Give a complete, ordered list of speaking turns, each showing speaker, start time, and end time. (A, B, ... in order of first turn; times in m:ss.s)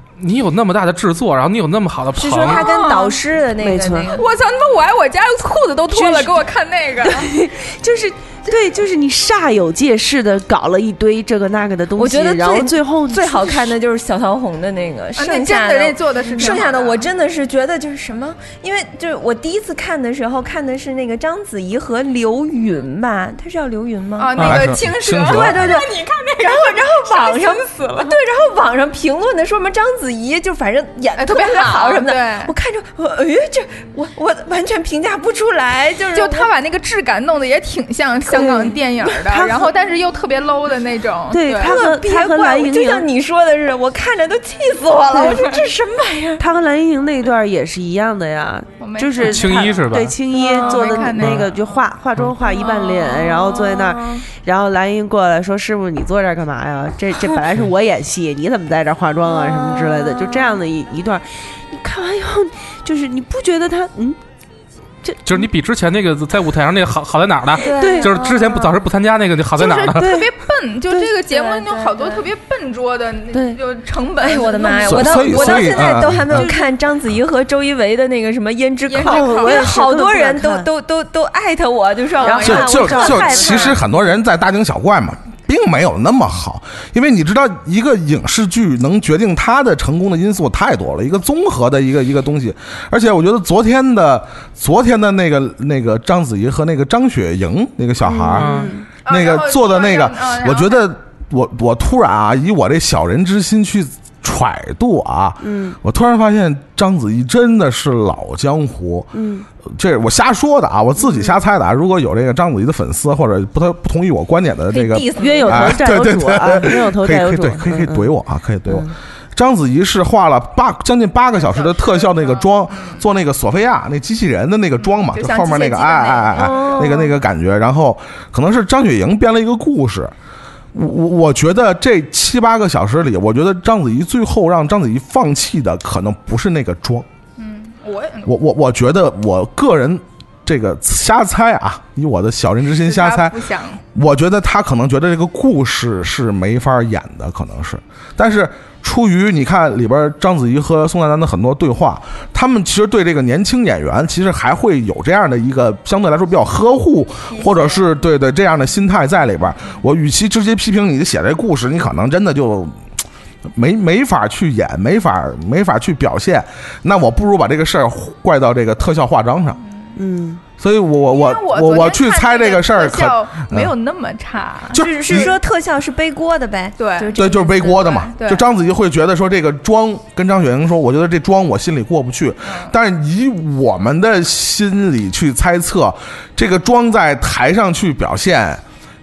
0:00.2-0:02.6 A
0:02.2-0:04.2 B
0:02.4-0:03.2 C
0:03.6-0:04.2 D
0:04.1-0:07.3 C
0:05.9-0:06.4 D
0:07.0-0:13.7 D
0:12.0-0:36.5 B
0:15.2-0:17.1 C
0:24.2-0:28.2 C
0:24.4-0:25.8 E
0:31.2-0:32.5 C
0:36.1-0:41.8 C
0:38.3-0:38.8 B
0:39.2-0:39.7 D
0:41.3-0:43.1 D
0:41.6-0:46.4 B
0:45.1-0:45.6 C
0:46.4-1:04.2 D
0:48.8-0:49.7 C
0:49.2-0:50.2 A
0:50.3-0:51.5 C
0:50.4-0:51.1 B
0:51.2-0:51.5 A
0:52.4-0:54.2 B
0:59.3-1:00.6 B
1:05.0-1:05.5 D
1:05.2-1:10.1 A
1:07.6-1:08.8 B
1:07.6-1:08.1 D
1:09.6-1:15.9 C
1:09.9-1:10.2 D
1:11.2-1:12.2 B
1:13.3-1:13.6 D
1:14.2-1:23.8 B
1:14.8-1:16.5 E
1:18.9-1:19.8 C
1:19.0-1:20.7 D
1:22.2-1:23.7 C
1:22.2-1:23.3 D
1:22.4-1:49.1 E
1:38.0-1:38.8 D
1:38.3-1:38.7 A
1:39.0-1:40.9 C
1:45.4-1:45.8 D
1:49.1-1:49.4 D
1:49.6-2:10.1 E
1:54.7-1:55.8 B
1:55.2-1:58.1 D
1:58.7-1:58.9 D
2:01.3-2:03.0 C
2:04.8-2:07.0 C
2:06.3-2:07.1 B
2:10.7-2:17.1 E
2:17.4-2:18.3 C
2:18.2-2:23.4 E
2:22.8-2:23.8 C
2:23.9-2:42.8 E
2:43.4-2:49.6 E
2:49.9-2:50.4 D
2:50.6-2:53.7 E
2:51.1-2:54.8 C
2:54.7-2:55.4 E
2:54.8-2:57.8 B
2:56.8-2:58.4 C
2:57.1-3:08.6 E